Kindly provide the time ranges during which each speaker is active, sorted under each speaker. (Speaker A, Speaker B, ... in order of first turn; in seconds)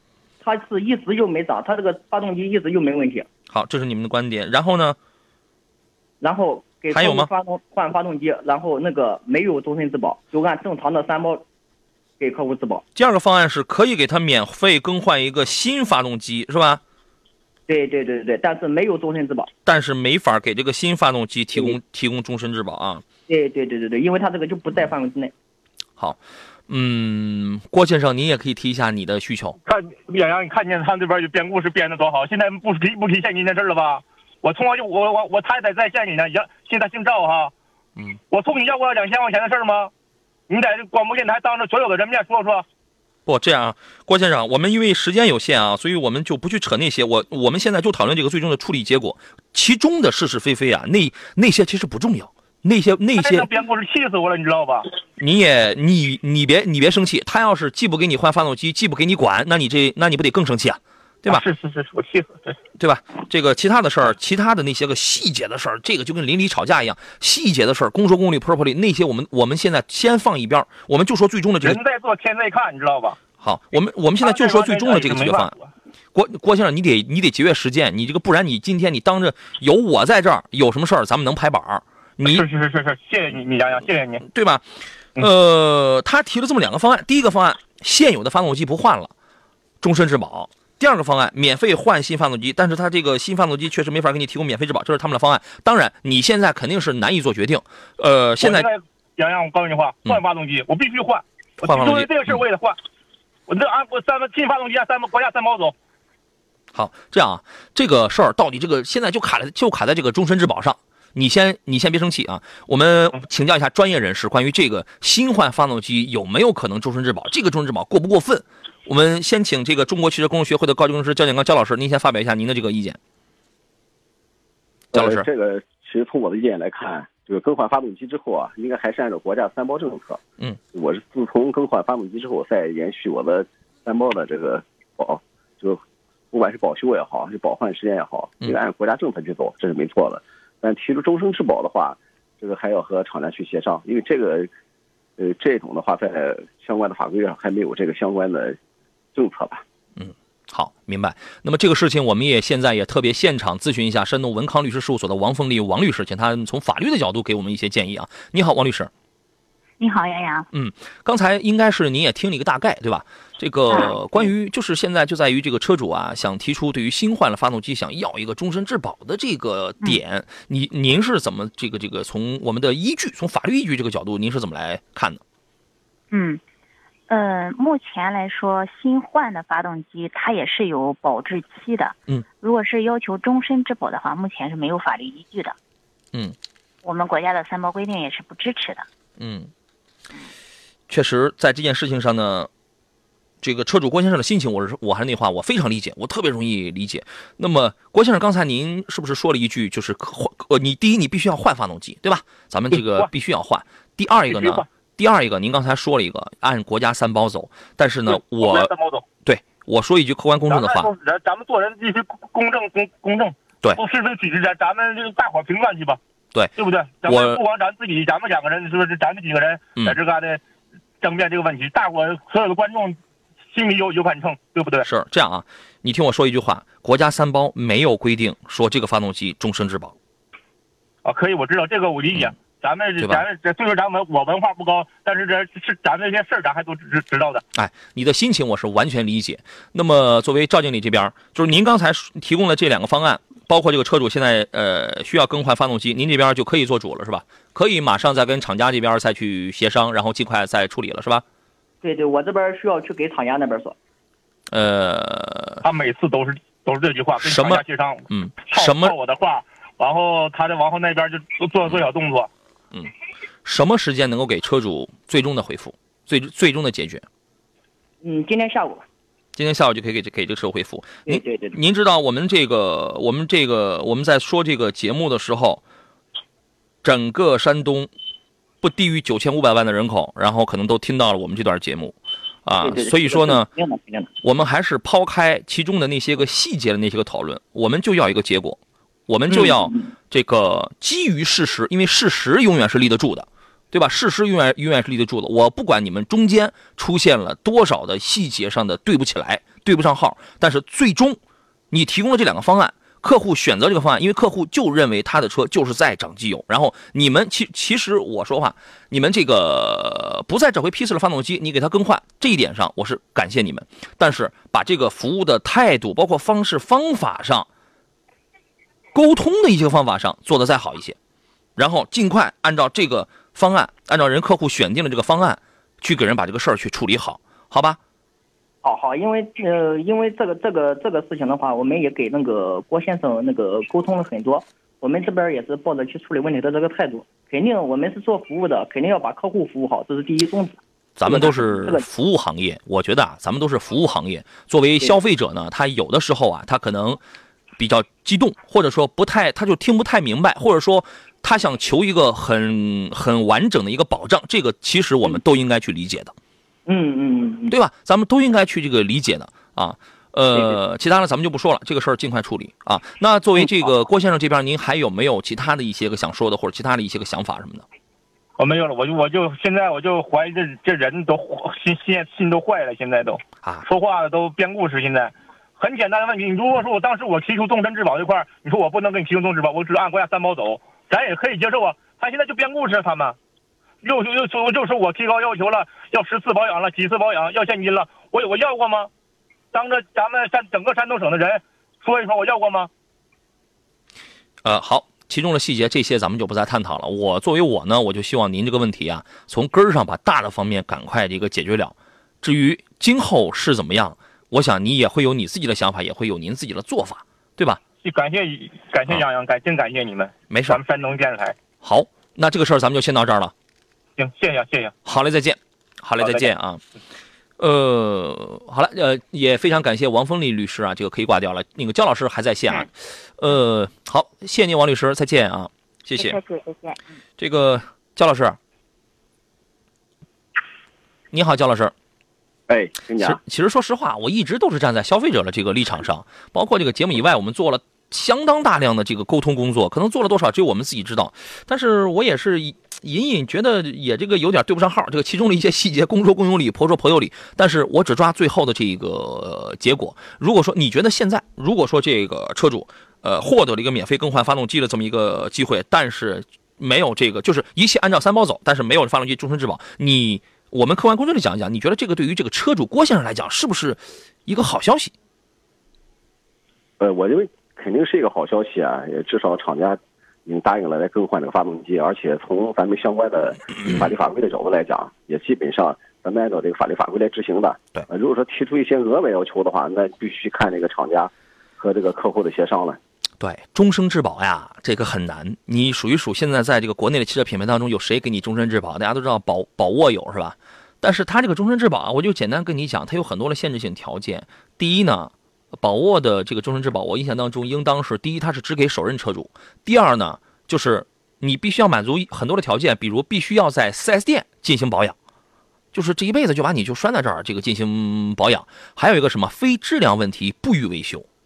Speaker A: 0.4-3.3, 6.2-11.4, 12.2-12.8, 17.7-19.5, 23.3-25.3, 251.8-253.8, 268.0-268.8, 271.1-271.6, 282.6-284.1, 289.3-289.9, 328.6-341.9, 356.7-357.6, 363.4-363.7
Speaker B: 3.5-5.0, 6.9-7.3, 13.0-16.8, 19.7-23.0, 26.7-29.6, 43.3-53.5, 55.2-61.5, 62.8-71.8, 73.4-75.5, 76.1-82.5, 84.3-84.6, 85.2-89.1, 89.8-98.7, 101.6-102.4, 106.7-123.0, 124.9-125.3, 150.0-158.9, 160.5-175.2, 189.2-189.5, 190.9-192.5, 193.4-208.7, 209.2-210.9, 217.1-217.4, 224.8-229.9, 233.0-233.2, 237.6-251.2, 254.5-255.6, 257.2-258.9, 263.4-267.1, 269.4-275.6, 276.8-277.9, 278.6-283.5, 284.2-301.2, 301.7-317.5, 318.9-321.0, 321.6-327.8, 341.0-347.0, 347.6-356.1, 357.5-367.6, 394.4-407.6, 410.3-410.6, 411.6-413.3, 414.9-416.6, 417.4-426.2, 427.2-428.4, 431.1-431.7, 433.0-464.9, 483.2-504.9, 505.7-511.1
Speaker C: 29.7-37.5, 38.3-39.9, 40.5-42.6, 53.2-54.9, 61.3-62.6, 71.6-73.2, 74.2-75.7, 82.3-84.2, 98.4-102.8, 103.5-105.7, 202.7-203.1, 204.3-204.7, 208.1-209.0, 210.5-216.0, 216.6-220.4, 221.0-223.0, 223.5-224.9, 231.1-237.4, 255.6-262.3, 368.4-383.2, 383.8-388.9, 389.5-392.7, 407.8-411.4, 414.0-414.7, 416.0-416.3
Speaker D: 124.9-130.2, 130.7-144.5, 145.2-148.6, 149.2-149.6, 432.5-433.2, 466.8-482.8
Speaker E: 159.8-160.5, 176.1-176.4, 177.1-185.6, 186.8-188.8, 426.0-427.0